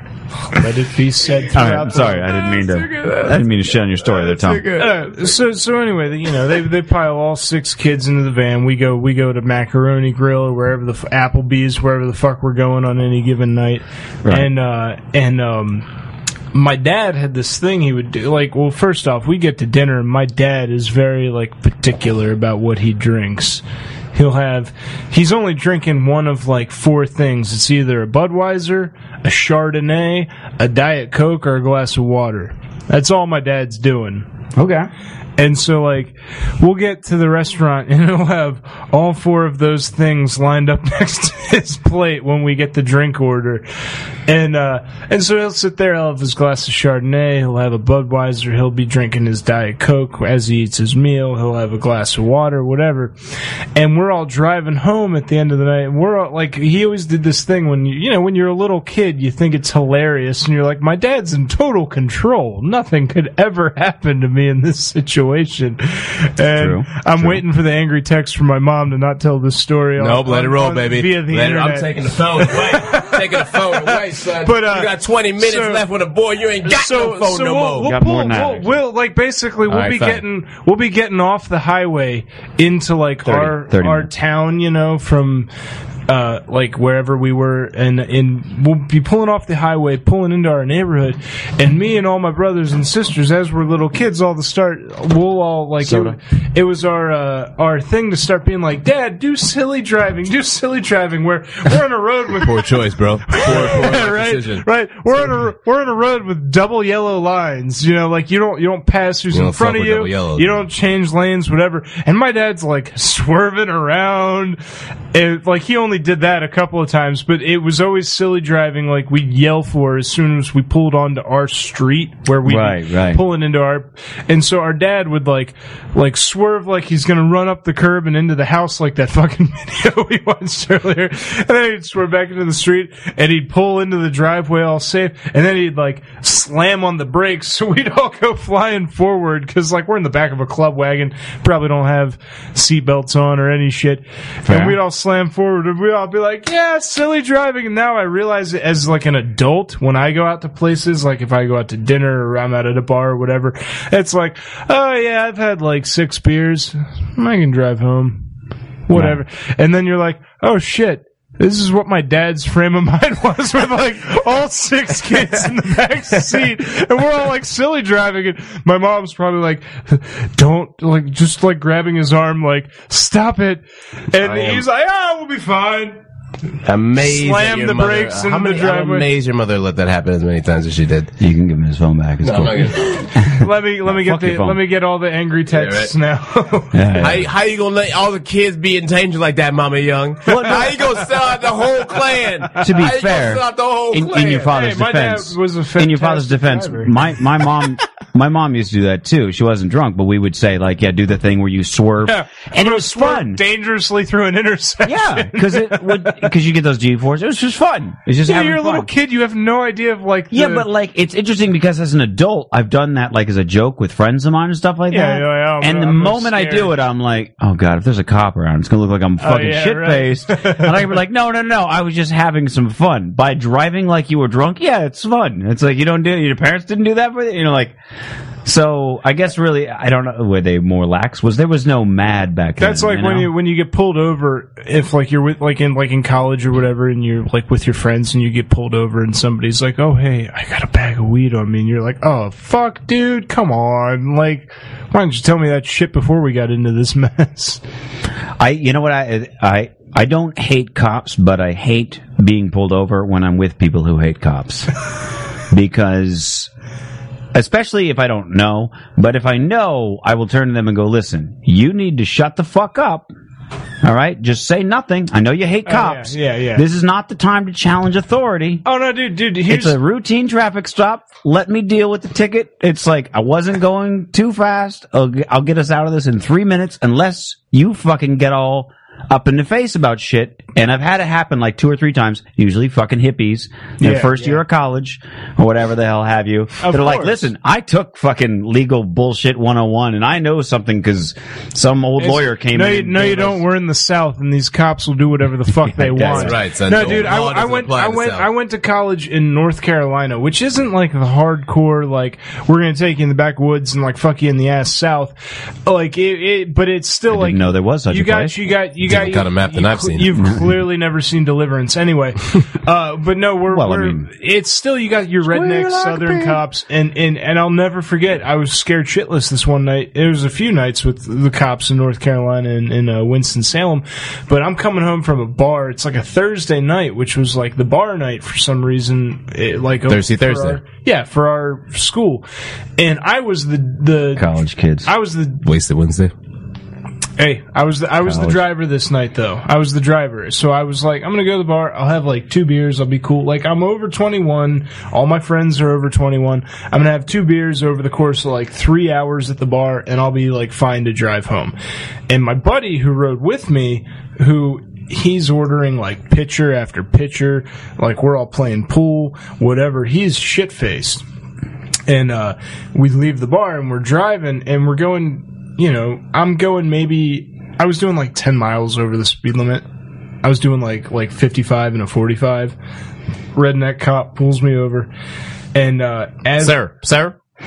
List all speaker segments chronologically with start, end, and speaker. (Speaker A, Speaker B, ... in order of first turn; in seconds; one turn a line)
Speaker A: 0.5-2.3
Speaker B: 1.5-4.7
Speaker C: 2.4-3.4
Speaker C: 4.0-5.2
Speaker A: 4.8-15.8
Speaker B: 14.2-14.5
Speaker A: 16.5-23.6
Speaker A: 24.1-34.3
Speaker B: 34.5-34.9
Speaker A: 35.4-43.6
Speaker A: 44.3-53.1
Speaker A: 53.7-75.8
Speaker B: 66.5-67.4
Speaker C: 70.0-77.9
Speaker A: 76.7-85.5
Speaker B: 77.8-78.7
Speaker C: 79.7-80.2
Speaker B: 83.2-84.1
Speaker A: 86.1-102.7
Speaker B: 95.8-96.2
Speaker C: 102.4-104.6
Speaker A: 103.3-114.6
Speaker C: 109.3-110.6
Speaker A: 115.1-158.2
Speaker B: 122.4-123.2
Speaker B: 144.4-144.8
Speaker A: 158.9-176.0
Speaker C: 174.2-174.6
Speaker C: 176.6-181.1
Speaker A: 177.0-179.1
Speaker B: 181.2-184.6
Speaker C: 182.2-183.1
Speaker A: 183.2-186.9
Speaker C: 185.5-185.9
Speaker B: 186.7-187.3
Speaker C: 187.0-194.5
Speaker B: 190.3-190.8
Speaker B: 192.6-203.4
Speaker A: 194.4-197.1
Speaker A: 202.0-206.2
Speaker B: 204.8-208.9
Speaker A: 208.2-210.7
Speaker B: 210.3-227.8
Speaker A: 214.9-216.7
Speaker A: 219.2-220.9
Speaker B: 228.4-233.3
Speaker A: 232.6-247.6
Speaker B: 248.4-254.7
Speaker B: 255.5-256.5
Speaker B: 257.3-263.1
Speaker B: 263.8-268.6
Speaker A: 265.6-266.6
Speaker A: 268.6-269.8
Speaker B: 269.5-293.4
Speaker A: 283.8-284.4
Speaker A: 286.6-287.2
Speaker A: 292.0-332.2
Speaker B: 295.7-296.4
Speaker C: 296.0-298.3
Speaker B: 307.1-308.4
Speaker C: 308.8-310.2
Speaker B: 310.2-310.6
Speaker B: 313.5-314.1
Speaker B: 315.2-316.4
Speaker C: 329.9-330.6
Speaker A: 332.8-334.3
Speaker B: 334.1-334.9
Speaker A: 334.8-335.4
Speaker C: 335.4-336.1
Speaker A: 337.2-351.5
Speaker B: 338.0-338.4
Speaker A: 352.1-361.0
Speaker A: 361.9-369.6
Speaker A: 370.2-372.6
Speaker A: 373.3-374.9
Speaker A: 375.5-376.6
Speaker C: 376.4-377.1